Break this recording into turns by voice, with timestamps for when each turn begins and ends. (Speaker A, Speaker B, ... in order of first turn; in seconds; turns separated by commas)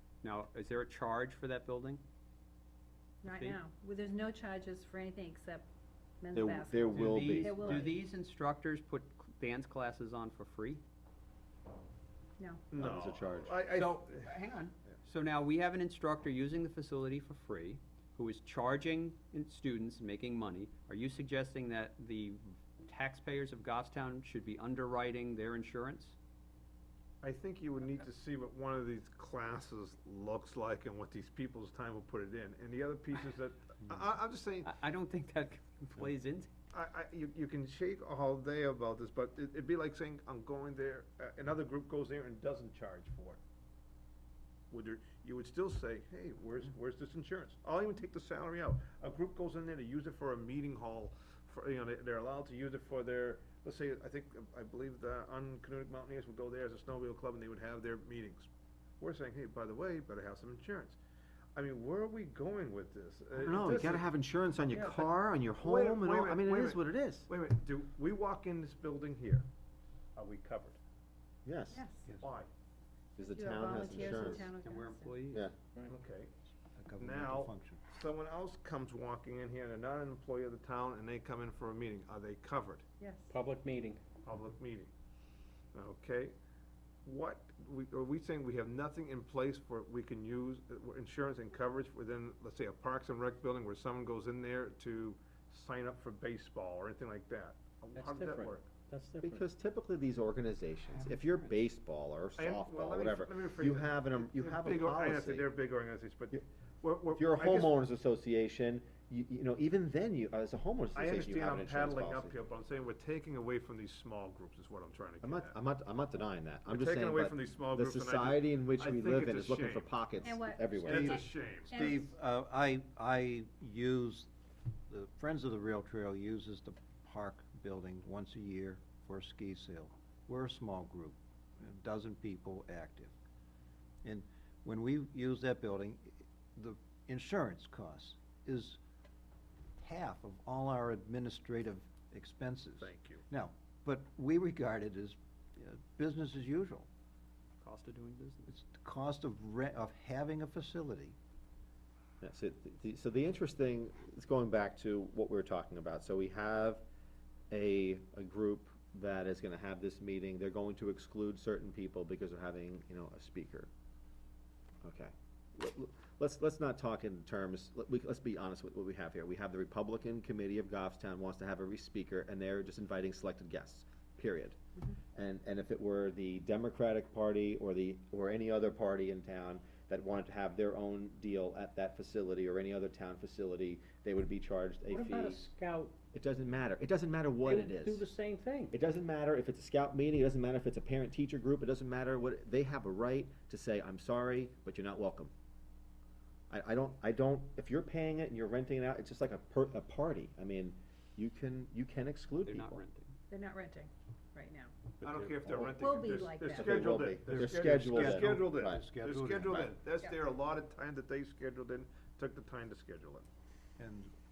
Speaker A: 0.2-2.0, Speaker B: 3.2-5.7, Speaker A: 3.3-3.6, Speaker B: 6.2-8.0, Speaker C: 6.3-7.9, Speaker A: 6.9-10.8, Speaker B: 12.4-12.7, Speaker D: 12.7-14.3, Speaker C: 12.8-13.5, Speaker A: 13.7-26.1, Speaker D: 27.2-34.7, Speaker A: 34.6-36.5, Speaker D: 36.7-43.4, Speaker D: 44.7-58.5, Speaker D: 59.0-61.0, Speaker D: 61.5-64.1, Speaker C: 63.4-67.3, Speaker D: 64.7-69.5, Speaker D: 70.2-70.8, Speaker C: 71.4-71.8, Speaker B: 71.7-72.1, Speaker D: 72.1-72.5, Speaker C: 73.2-74.5, Speaker B: 73.2-75.3, Speaker A: 73.9-75.5, Speaker C: 75.3-75.5, Speaker D: 75.8-76.3, Speaker E: 76.8-77.8, Speaker D: 77.0-82.8, Speaker B: 83.0-83.4, Speaker F: 83.3-84.0, Speaker D: 84.2-84.9, Speaker D: 85.7-86.3, Speaker D: 87.0-98.7, Speaker F: 97.9-99.5, Speaker C: 99.2-105.5, Speaker A: 100.9-101.5, Speaker D: 102.4-107.8, Speaker C: 107.1-112.3, Speaker D: 110.9-115.5, Speaker C: 115.2-121.1, Speaker D: 116.7-119.9, Speaker B: 120.2-122.1, Speaker D: 120.8-122.0, Speaker E: 120.9-124.3, Speaker E: 124.9-133.1, Speaker E: 134.0-138.8, Speaker E: 139.8-146.9, Speaker D: 142.8-143.2, Speaker A: 147.6-148.5, Speaker E: 148.5-151.2, Speaker C: 152.2-156.8, Speaker C: 157.5-163.7, Speaker C: 164.8-174.6, Speaker C: 175.1-185.5, Speaker F: 184.9-185.9, Speaker C: 186.1-188.1, Speaker F: 187.4-188.8, Speaker C: 188.7-195.3, Speaker C: 196.5-202.8, Speaker A: 202.4-203.2, Speaker B: 203.3-204.7, Speaker F: 205.0-206.0, Speaker D: 205.0-213.3, Speaker B: 205.7-206.7, Speaker C: 206.4-208.8, Speaker E: 207.2-209.7, Speaker E: 213.8-214.1